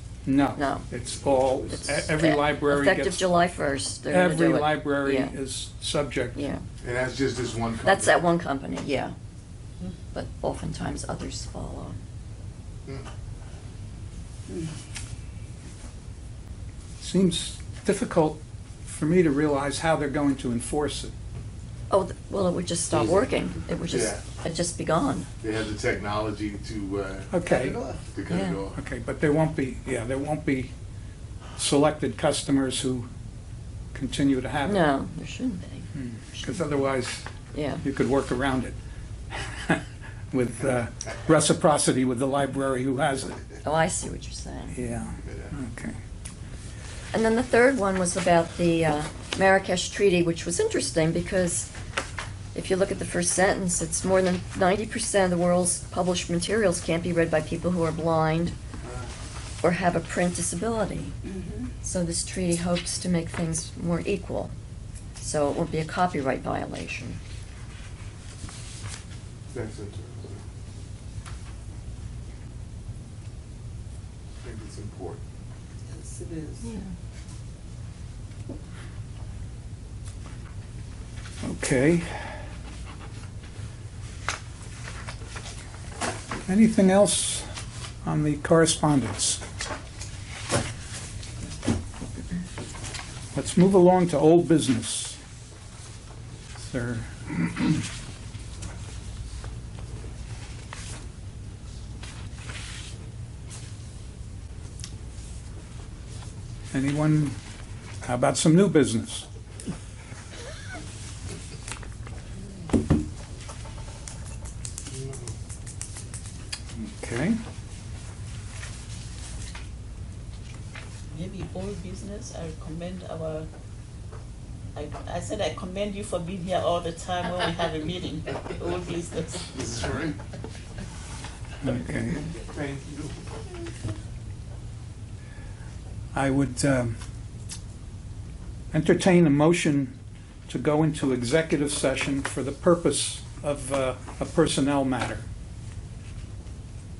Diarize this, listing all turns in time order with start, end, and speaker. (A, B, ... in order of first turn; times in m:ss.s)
0:00.2-0:03.3 A
0:00.6-0:00.8 B
0:01.7-0:05.3 B
0:04.1-0:06.5 A
0:06.3-0:06.6 B
0:06.8-0:08.2 C
0:07.8-0:09.1 B
0:10.1-0:12.0 B
0:17.0-0:21.1 A
0:21.9-0:25.3 B
0:23.9-0:24.2 C
0:25.4-0:27.3 C
0:27.3-0:27.8 A
0:27.4-0:28.1 D
0:28.1-0:28.8 C
0:28.3-0:28.6 B
0:28.7-0:30.7 A
0:31.6-0:33.1 A
0:33.9-0:34.9 A
0:34.6-0:36.7 B
0:35.9-0:37.3 A
0:37.5-0:37.8 B
0:37.8-0:38.8 A
0:39.3-0:43.4 A
0:43.6-0:44.7 B
0:44.7-0:46.0 A
0:45.2-0:45.5 C
0:47.1-0:51.7 B
0:52.5-0:58.5 B
0:59.6-1:01.1 B
1:01.2-1:01.7 D
1:01.8-1:04.5 B
1:05.2-1:07.2 B
1:09.5-1:10.4 C
1:14.4-1:15.2 C
1:15.9-1:16.7 D
1:21.4-1:22.1 A
1:26.5-1:27.4 A
1:28.0-1:29.4 A
1:33.3-1:35.2 A
1:36.6-1:37.8 A
1:46.7-1:47.4 A
1:48.0-1:49.3 A
1:54.9-1:55.3 C
1:56.8-1:57.4 A
2:01.1-2:03.5 E
2:04.7-2:09.5 E
2:09.5-2:10.2 C
2:11.6-2:12.3 A
2:12.5-2:13.2 C
2:16.1-2:17.0 A
2:18.7-2:19.9 A
2:20.5-2:25.2 A